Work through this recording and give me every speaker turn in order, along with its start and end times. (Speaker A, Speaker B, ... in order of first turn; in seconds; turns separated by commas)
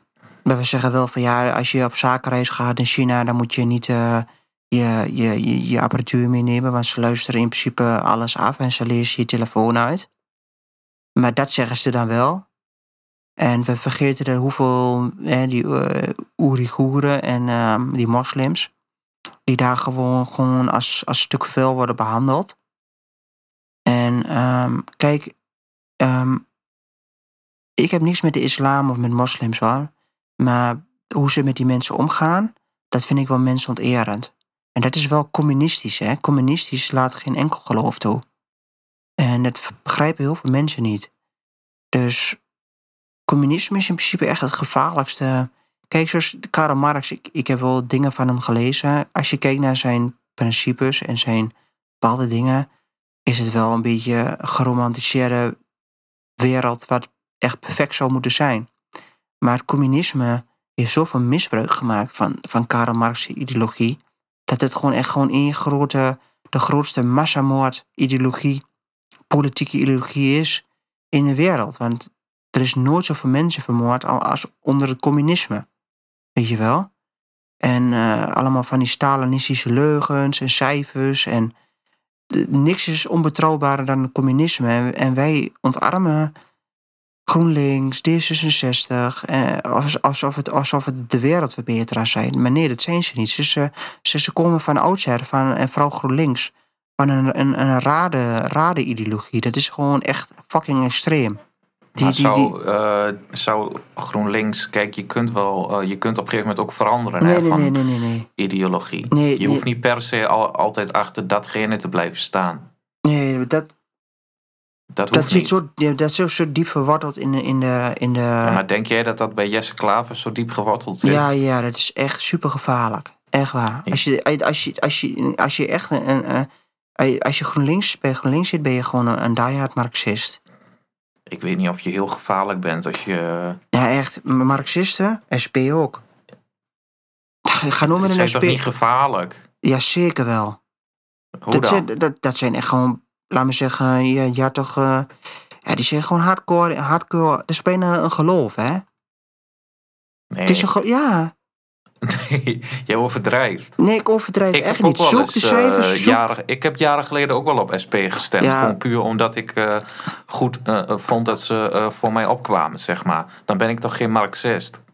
Speaker A: 0.5-10.1, Speaker A: 11.2-12.5, Speaker A: 13.4-18.7, Speaker A: 19.5-22.6, Speaker A: 23.9-25.3, Speaker A: 26.0-26.4, Speaker A: 27.8-38.2, Speaker A: 39.2-41.1, Speaker A: 41.9-42.4, Speaker A: 43.3-52.7, Speaker A: 53.3-55.6, Speaker A: 56.4-58.7, Speaker A: 59.4-68.6, Speaker A: 69.3-75.7, Speaker A: 76.4-76.9, Speaker A: 77.6-81.5, Speaker A: 82.3-86.3, Speaker A: 87.3-101.4, Speaker B: 102.0-107.8, Speaker A: 102.0-102.5, Speaker A: 107.2-108.3, Speaker B: 108.4-112.7, Speaker A: 109.1-109.7, Speaker A: 113.0-113.7, Speaker B: 114.9-115.6, Speaker A: 115.1-118.6, Speaker B: 118.4-121.3, Speaker A: 121.0-130.4, Speaker B: 131.3-133.6, Speaker A: 133.7-136.0, Speaker A: 137.5-138.6, Speaker B: 137.8-139.4, Speaker A: 139.6-140.6, Speaker B: 141.4-141.9, Speaker A: 141.5-145.1, Speaker A: 145.7-148.8, Speaker B: 150.3-150.7, Speaker A: 150.5-151.3, Speaker B: 152.0-153.8, Speaker A: 153.8-156.2, Speaker B: 154.5-164.8, Speaker A: 158.4-158.8